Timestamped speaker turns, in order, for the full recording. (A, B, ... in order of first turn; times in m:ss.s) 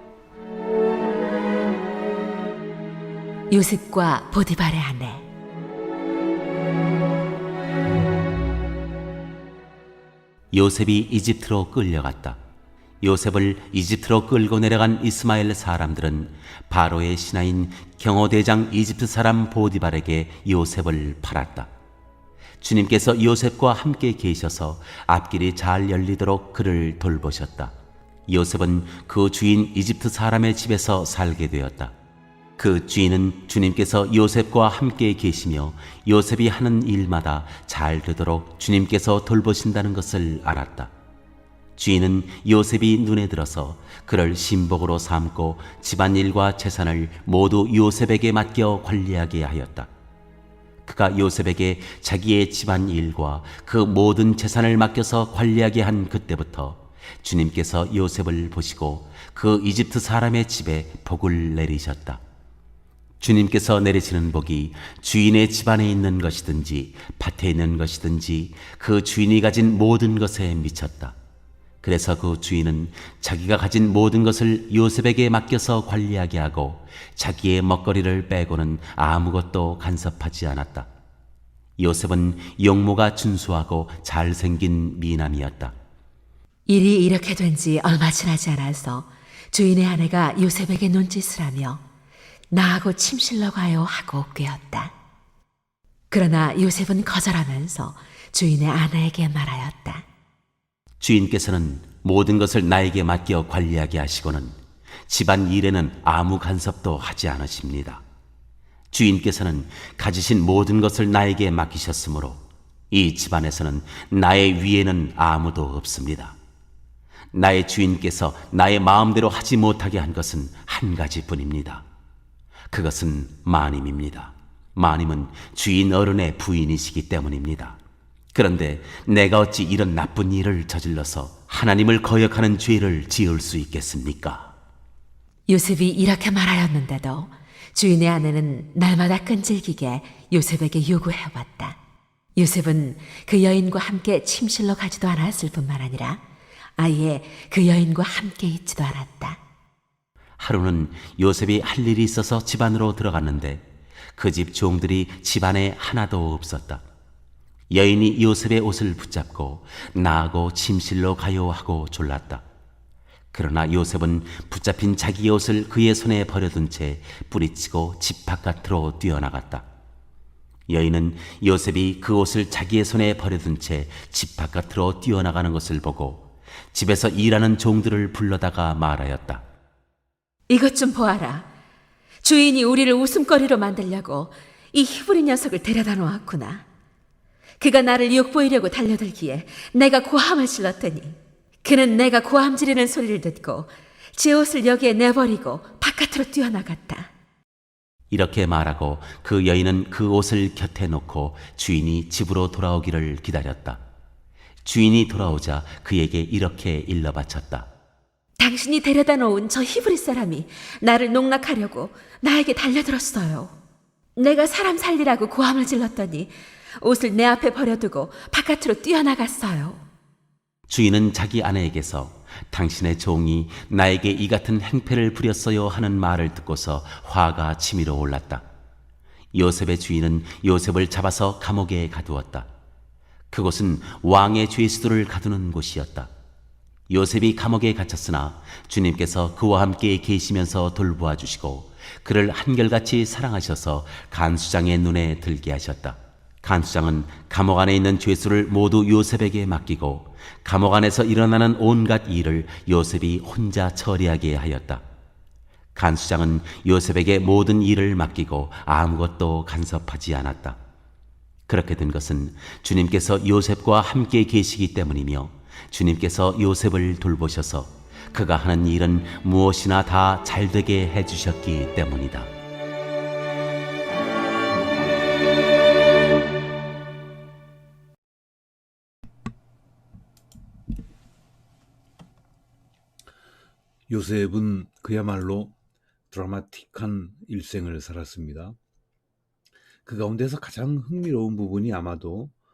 0:03.5-0:05.3 A
0:10.5-0:12.4 B
0:13.0-0:21.7 B
0:22.6-0:27.8 B
0:28.3-0:31.9 B
0:32.6-0:40.9 B
0:41.8-0:49.9 B
0:50.8-1:02.2 B
1:03.2-1:11.2 B
1:11.8-1:20.9 B
1:21.8-1:25.8 B
1:26.7-1:31.8 A
1:32.5-1:34.9 A
1:36.1-1:40.1 A
1:41.0-1:48.0 B
1:48.9-1:56.4 B
1:57.3-2:01.9 B
2:02.7-2:07.8 B
2:08.3-2:14.5 B
2:15.5-2:21.8 A
2:22.4-2:26.2 A
2:26.8-2:29.4 A
2:30.4-2:33.6 B
2:34.2-2:36.8 B
2:37.7-2:42.4 B
2:43.3-2:49.7 B
2:50.7-2:59.4 B
3:00.5-3:01.5 A
3:02.2-3:06.6 A
3:07.6-3:17.1 A
3:18.1-3:23.8 B
3:24.6-3:27.7 B
3:28.4-3:33.5 A
3:34.2-3:39.8 A
3:40.7-3:48.4 B
3:49.3-3:52.5 B
3:53.3-3:56.1 B
3:56.9-4:14.8 B
4:15.8-4:20.6 B
4:21.5-4:32.3 B
4:43.9-4:45.5 C
4:46.1-4:48.6 C
4:49.8-4:52.3 C